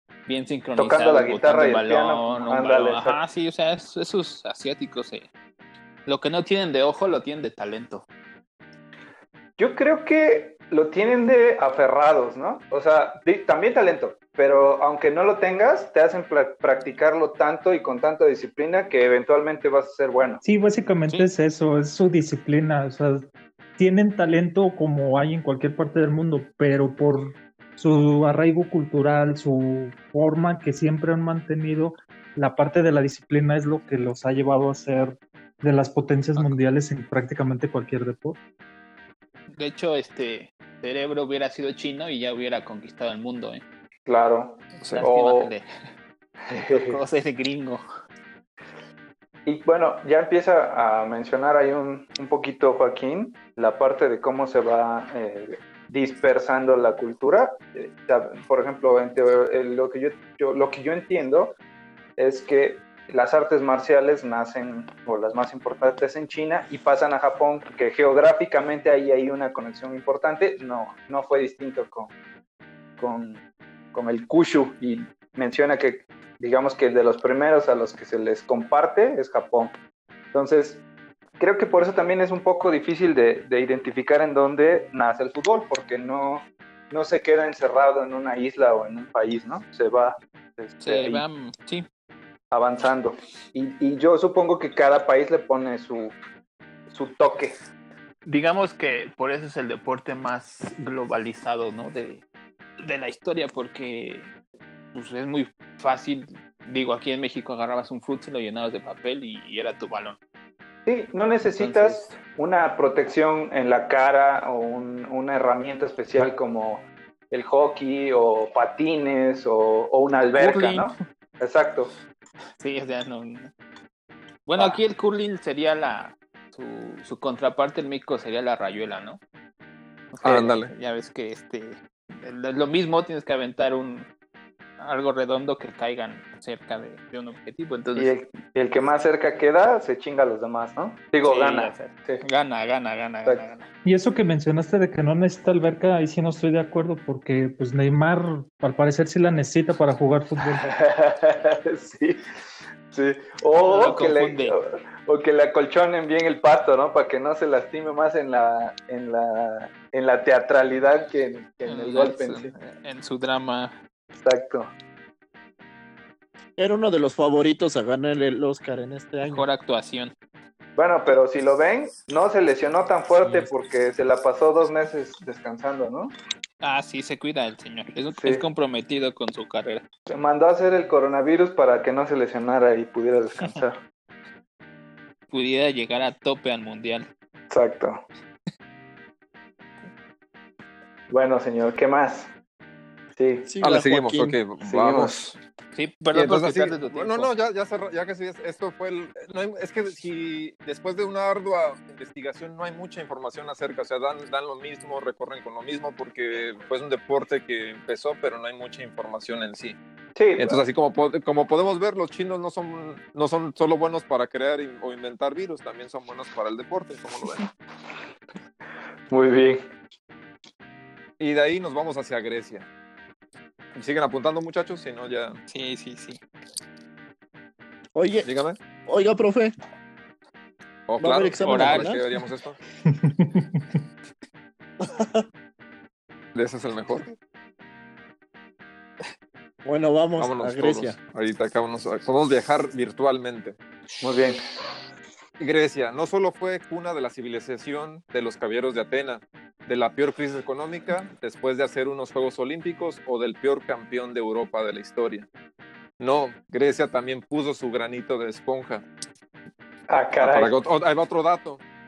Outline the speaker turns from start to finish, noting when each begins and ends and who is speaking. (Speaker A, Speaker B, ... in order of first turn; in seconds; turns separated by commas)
Speaker A: 0.3-5.3, Speaker B: 0.8-3.2, Speaker A: 6.1-8.1, Speaker B: 9.6-20.4, Speaker C: 20.4-38.4, Speaker A: 39.5-43.6, Speaker B: 44.1-45.5, Speaker A: 44.9-45.6, Speaker B: 46.5-47.0, Speaker A: 46.7-47.8, Speaker B: 49.5-61.6, Speaker B: 62.2-72.1, Speaker B: 73.0-73.4, Speaker B: 73.9-79.8, Speaker B: 80.3-80.8, Speaker B: 81.4-91.2, Speaker A: 90.8-91.9, Speaker B: 92.5-96.2, Speaker B: 96.9-97.6, Speaker A: 98.3-102.2, Speaker A: 102.8-104.3, Speaker A: 104.9-110.2, Speaker B: 110.9-121.9, Speaker A: 111.4-112.2, Speaker A: 120.3-120.9, Speaker A: 122.6-123.5, Speaker A: 124.5-129.2, Speaker B: 124.5-124.8, Speaker A: 130.1-134.1, Speaker D: 130.2-130.7, Speaker A: 134.8-138.1, Speaker B: 137.9-142.2, Speaker A: 141.2-143.7, Speaker C: 143.8-150.7, Speaker B: 150.6-152.2, Speaker B: 152.9-162.5, Speaker A: 153.6-154.6, Speaker A: 161.7-163.8, Speaker B: 164.2-164.7, Speaker E: 166.6-169.5, Speaker A: 169.2-170.1, Speaker B: 170.8-176.1, Speaker A: 176.6-179.8, Speaker B: 178.2-178.4, Speaker B: 180.1-183.8, Speaker A: 185.3-187.1, Speaker B: 187.5-188.0, Speaker B: 191.1-192.3, Speaker B: 193.2-193.5, Speaker E: 193.5-194.4, Speaker D: 193.6-195.4, Speaker B: 194.6-195.2, Speaker A: 195.8-197.3, Speaker D: 196.1-209.8, Speaker B: 210.2-210.6, Speaker D: 210.4-217.5, Speaker B: 219.1-219.7, Speaker D: 221.2-222.7, Speaker D: 223.7-225.4, Speaker A: 225.5-226.2, Speaker E: 227.9-228.3, Speaker D: 228.2-228.6, Speaker E: 228.9-229.5, Speaker D: 230.9-232.6, Speaker E: 231.0-232.0, Speaker A: 231.4-232.0, Speaker C: 232.9-233.6, Speaker E: 234.8-235.2, Speaker D: 236.3-237.2, Speaker E: 239.6-241.0, Speaker D: 240.2-243.6, Speaker B: 244.0-244.4, Speaker D: 245.4-255.3, Speaker D: 256.0-258.8, Speaker B: 259.9-260.5, Speaker D: 260.2-261.6